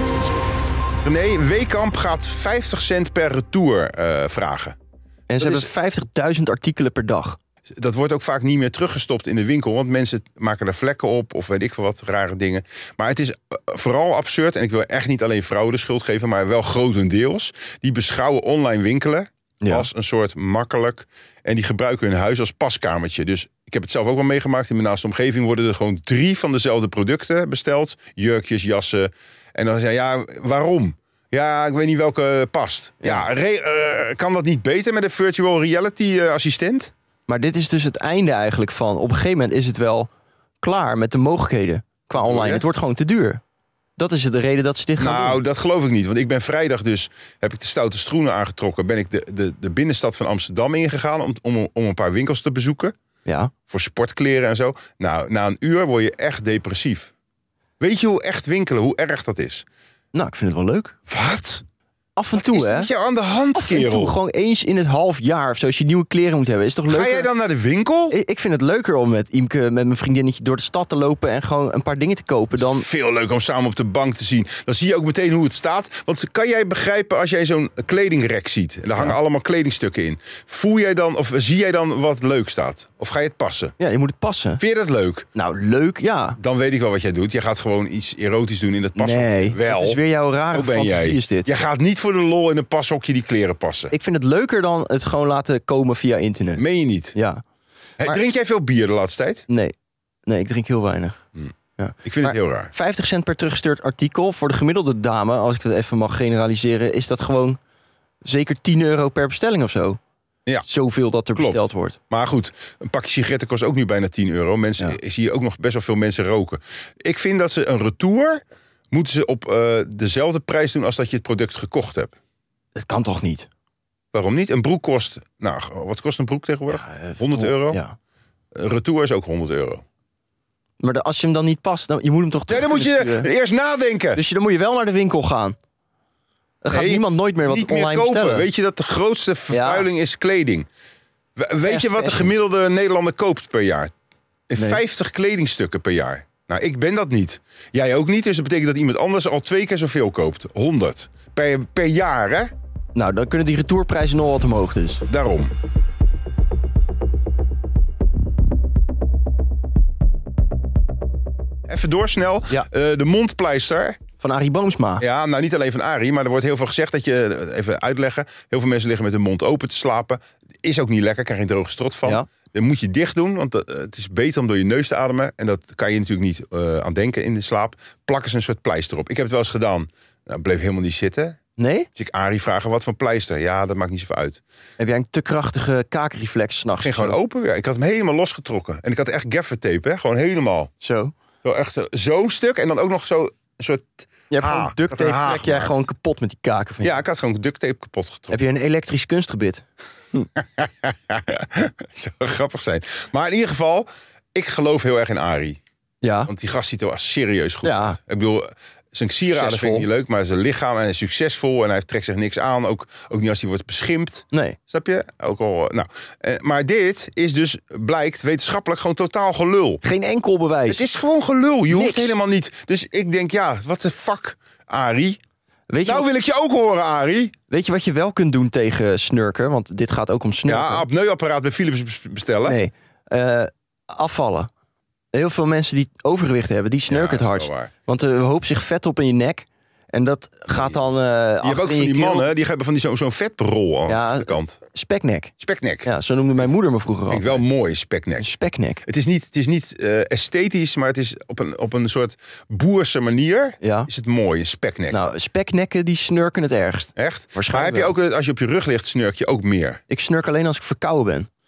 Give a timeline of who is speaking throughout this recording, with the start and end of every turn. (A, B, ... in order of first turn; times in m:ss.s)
0:01.0-0:04.8 A
0:05.3-0:07.4 B
0:05.4-0:05.7 A
0:07.7-0:36.9 A
0:19.6-0:19.9 B
0:37.3-0:40.1 B
0:40.6-0:43.4 B
0:42.2-0:42.6 A
0:44.0-0:45.4 B
0:45.0-0:53.0 A
0:53.3-0:53.5 B
0:53.7-0:57.1 A
0:57.8-0:59.6 A
1:00.1-1:01.0 B
1:01.1-1:01.6 A
1:02.2-1:02.9 B
1:02.4-1:04.2 A
1:03.5-1:07.3 B
1:06.9-1:08.2 A
1:08.1-1:12.9 B
1:12.6-1:23.7 A
1:23.8-1:24.6 B
1:24.6-1:25.3 A
1:25.4-1:26.4 B
1:26.4-1:33.9 A
1:29.0-1:31.5 B
1:33.9-1:37.4 B
1:36.6-1:37.2 A
1:38.0-1:39.4 A
1:39.5-1:39.8 B
1:40.3-1:41.2 B
1:41.8-1:47.6 B
1:42.0-1:42.7 A
1:48.2-1:50.0 B
1:50.7-1:52.0 B
1:51.4-2:02.2 A
2:02.8-2:03.5 B
2:04.1-2:07.8 A
2:06.7-2:08.0 B
2:08.5-2:09.8 A
2:10.8-2:13.3 B
2:12.5-2:14.2 A
2:14.2-2:15.6 B
2:16.6-2:18.5 B
2:16.7-2:20.7 A
2:19.5-2:19.9 B
2:21.4-2:23.9 A
2:21.6-2:22.3 B
2:24.5-2:32.5 A
2:33.0-2:35.0 B
2:35.1-2:35.5 A
2:41.7-2:44.0 A
2:44.2-2:45.0 B
2:45.0-3:01.4 A
3:01.6-3:01.9 B
3:02.0-3:04.4 A
3:04.8-3:07.2 B
3:06.8-3:10.7 A
3:10.8-3:11.1 B
3:11.4-3:15.8 A
3:14.3-3:17.0 B
3:16.8-3:18.4 A
3:18.3-3:20.3 B
3:20.4-3:25.6 A
3:26.0-3:26.3 B
3:26.3-3:39.8 A
3:27.6-3:28.0 B
3:29.3-3:29.9 B
3:34.3-3:34.6 B
3:39.8-3:40.8 B
3:40.7-3:45.2 A
3:41.7-3:42.2 B
3:45.7-3:46.1 B
3:45.8-3:47.4 A
3:47.5-3:50.9 B
3:50.5-3:52.6 A
3:52.5-3:54.5 B
3:55.1-4:02.3 B
3:56.9-3:57.7 A
4:01.4-4:04.6 A
4:03.9-4:05.3 B
4:05.4-4:05.9 A
4:05.8-4:07.4 B
4:07.1-4:08.3 A
4:08.2-4:08.8 B
4:08.9-4:15.1 A
4:13.6-4:13.9 B
4:14.9-4:17.9 B
4:17.0-4:19.8 A
4:19.9-4:21.3 B